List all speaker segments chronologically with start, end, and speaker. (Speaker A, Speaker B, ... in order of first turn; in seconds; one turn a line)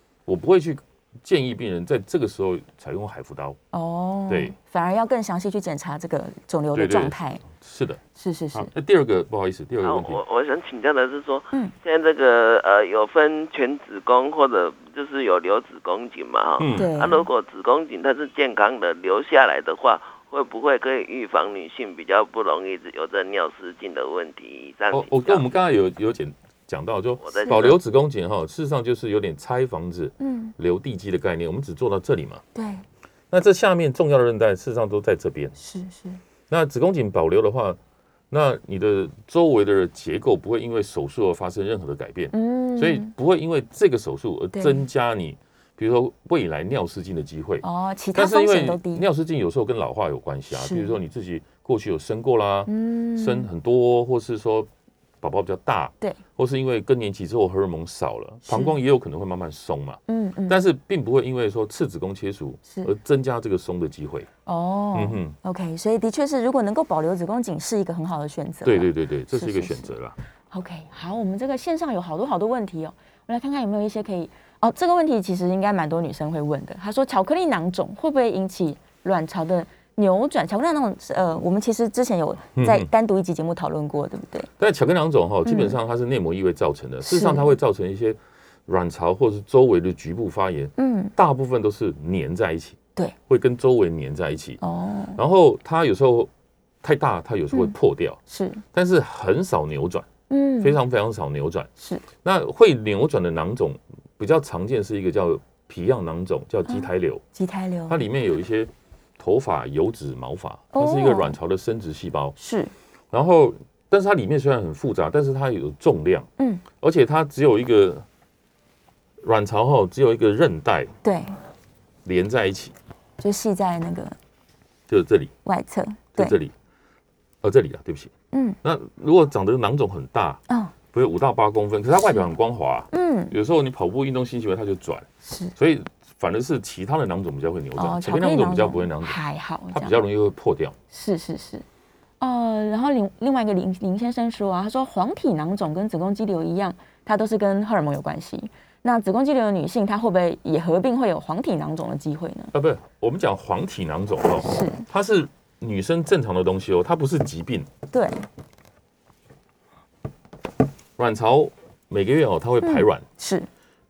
Speaker A: 0.2-3.6
Speaker B: 3.7-7.4
Speaker A: 4.3-4.5
Speaker A: 6.7-8.0
Speaker B: 8.2-8.7
Speaker A: 8.5-10.2
Speaker C: 9.8-25.4
Speaker A: 16.6-16.9
Speaker B: 16.7-17.3
Speaker A: 24.9-32.4
Speaker C: 27.2-27.8
Speaker B: 27.3-27.7
Speaker B: 30.2-30.5
Speaker B: 32.5-32.8
Speaker A: 33.3-35.6
Speaker B: 35.6-36.2
Speaker A: 36.5-37.8
Speaker A: 38.3-54.7
Speaker B: 42.3-43.1
Speaker B: 44.5-44.8
Speaker B: 47.6-49.0
Speaker B: 50.5-51.0
Speaker B: 52.6-53.5
Speaker A: 55.2-64.3
Speaker B: 58.5-58.7
Speaker B: 60.1-60.6
Speaker B: 64.5-69.9
Speaker A: 64.9-65.3
Speaker A: 68.6-70.2
Speaker B: 70.5-84.5
Speaker A: 82.5-82.9
Speaker A: 84.6-94.6
Speaker B: 85.4-85.8
Speaker B: 87.0-87.5
Speaker B: 90.8-91.1
Speaker B: 94.6-95.2
Speaker A: 95.2-96.3
Speaker A: 96.8-98.2
Speaker B: 98.3-98.6
Speaker A: 98.7-100.1
Speaker B: 100.3-100.8
Speaker A: 100.6-101.7
Speaker B: 101.8-102.0
Speaker A: 102.2-107.2
Speaker B: 106.7-108.0
Speaker A: 107.9-112.4
Speaker B: 110.7-111.3
Speaker B: 112.4-112.7
Speaker A: 113.1-116.3
Speaker A: 116.8-118.0
Speaker A: 119.2-120.9
Speaker B: 121.0-121.3
Speaker A: 122.0-122.7
Speaker B: 123.2-124.2
Speaker A: 124.9-125.3
Speaker B: 125.4-126.3
Speaker A: 126.2-126.5
Speaker A: 127.4-128.1
Speaker B: 128.3-128.6
Speaker A: 128.6-139.2
Speaker B: 132.9-133.3
Speaker B: 135.2-135.5
Speaker B: 137.8-140.0
Speaker A: 139.7-140.7
Speaker B: 140.9-141.6
Speaker B: 142.2-152.5
Speaker A: 152.5-157.7
Speaker B: 154.4-154.8
Speaker B: 157.9-158.2
Speaker A: 161.0-163.1
Speaker B: 162.6-163.5